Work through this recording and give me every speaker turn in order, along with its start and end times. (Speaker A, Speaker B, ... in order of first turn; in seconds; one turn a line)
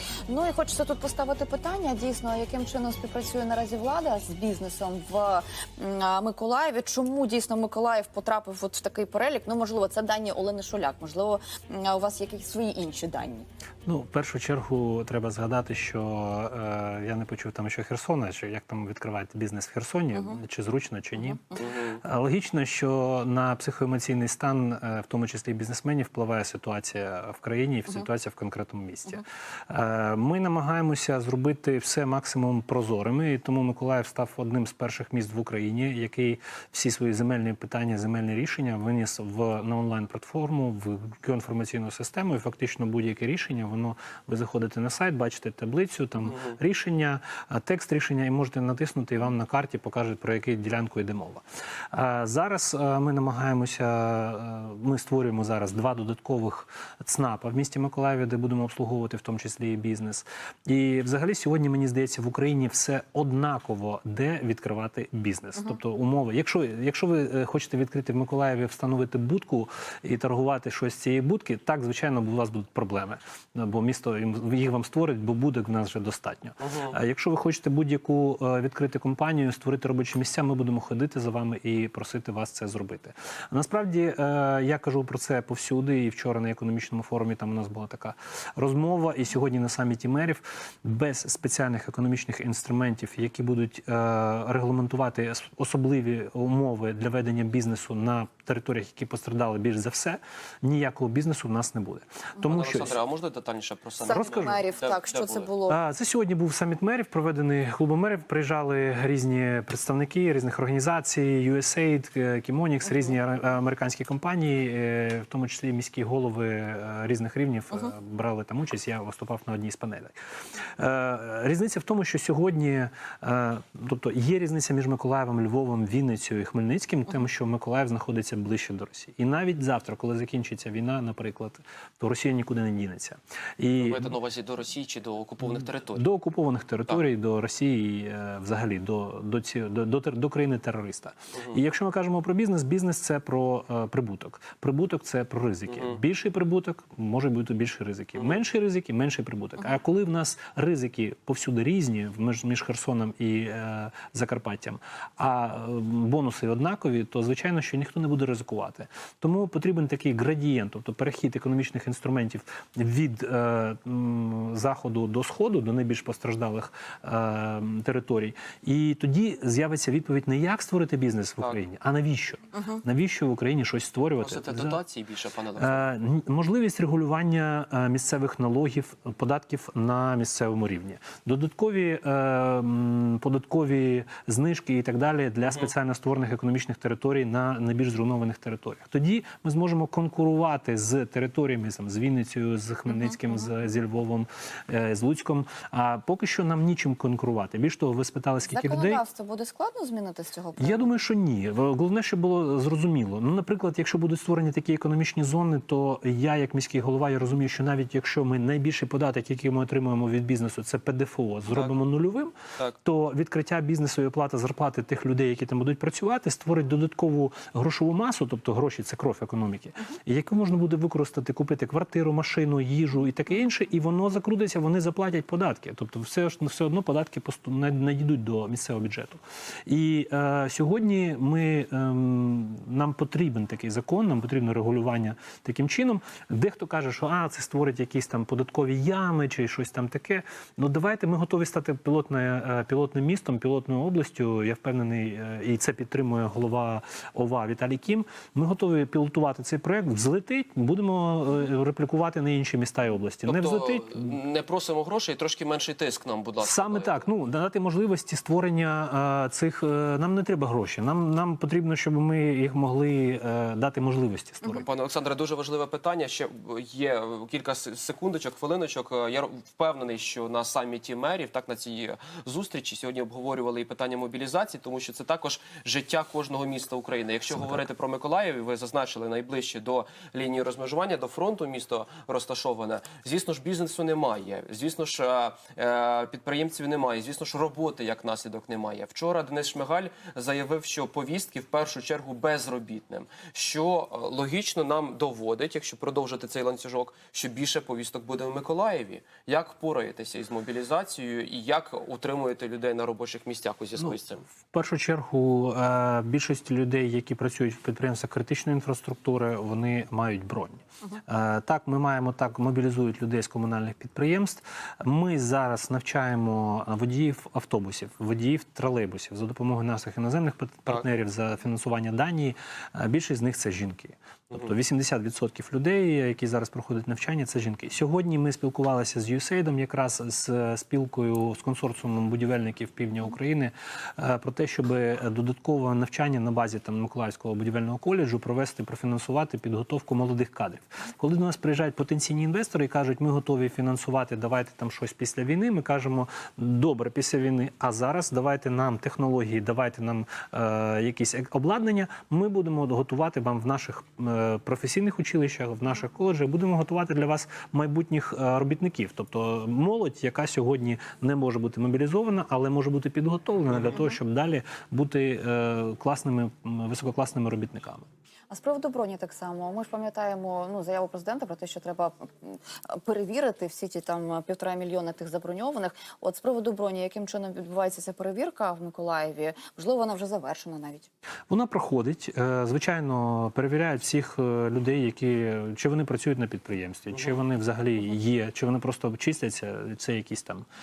Speaker A: 0.3-13.4
Speaker B: 13.8-103.0
Speaker C: 21.6-22.0
Speaker C: 76.6-76.9
Speaker C: 102.4-105.5
Speaker A: 104.0-105.8
Speaker B: 104.1-104.6
Speaker B: 105.7-134.1
Speaker C: 133.8-136.0
Speaker B: 135.9-174.8
Speaker C: 145.7-145.9
Speaker C: 174.2-175.8
Speaker B: 175.6-199.0
Speaker A: 198.4-200.8
Speaker B: 200.6-254.1
Speaker C: 253.2-257.0
Speaker B: 256.4-264.7
Speaker C: 264.6-304.2
Speaker B: 303.8-367.9
Speaker A: 368.3-380.9
Speaker B: 381.3-390.4